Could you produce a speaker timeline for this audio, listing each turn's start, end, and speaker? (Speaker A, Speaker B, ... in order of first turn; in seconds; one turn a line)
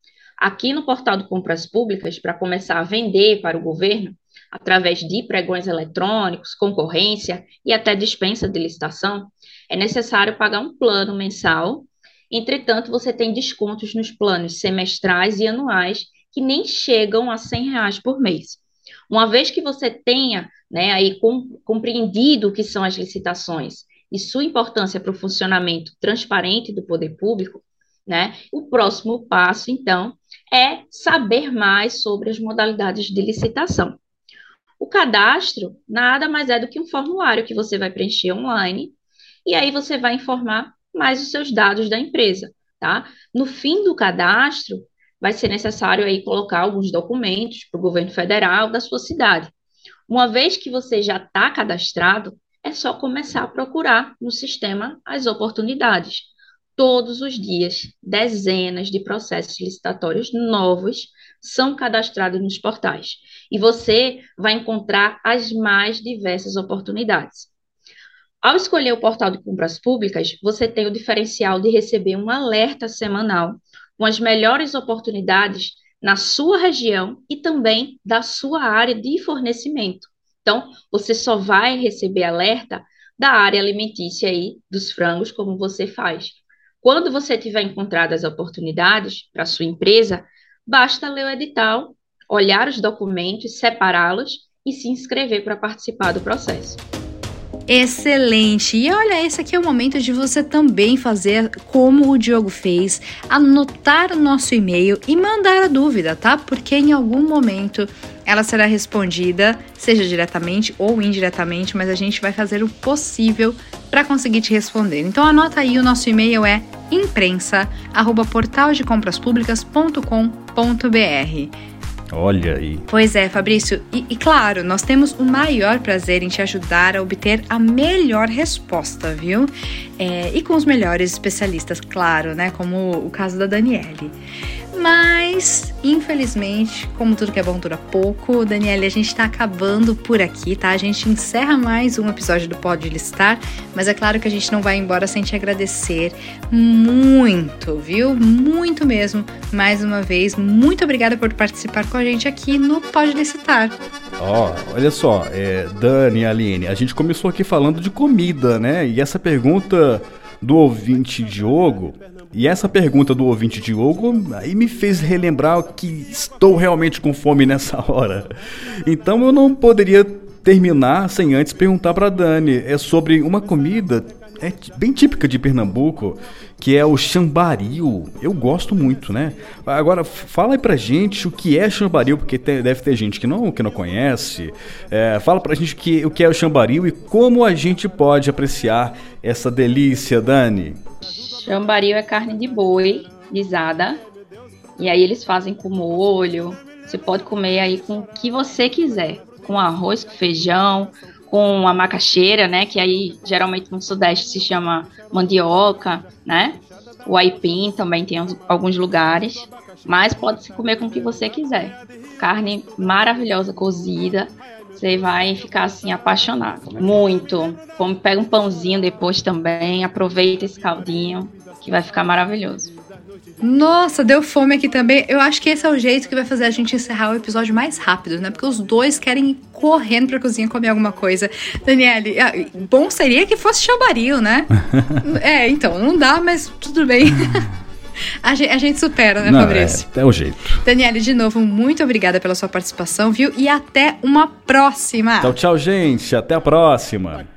Speaker A: 0.4-34.0
Speaker A: 34.8-49.5
Speaker A: 50.1-67.5
Speaker A: 68.4-96.8
Speaker B: 97.7-121.5
Speaker C: 122.1-122.9
Speaker B: 122.9-134.2
Speaker B: 134.7-153.8
Speaker C: 154.2-168.3
Speaker C: 168.8-190.8
Speaker A: 191.1-194.0
Speaker A: 194.8-222.7
Speaker B: 223.4-237.5
Speaker C: 234.7-235.0
Speaker B: 238.2-239.9
Speaker C: 239.2-240.6
Speaker B: 240.6-245.3
Speaker C: 245.2-247.3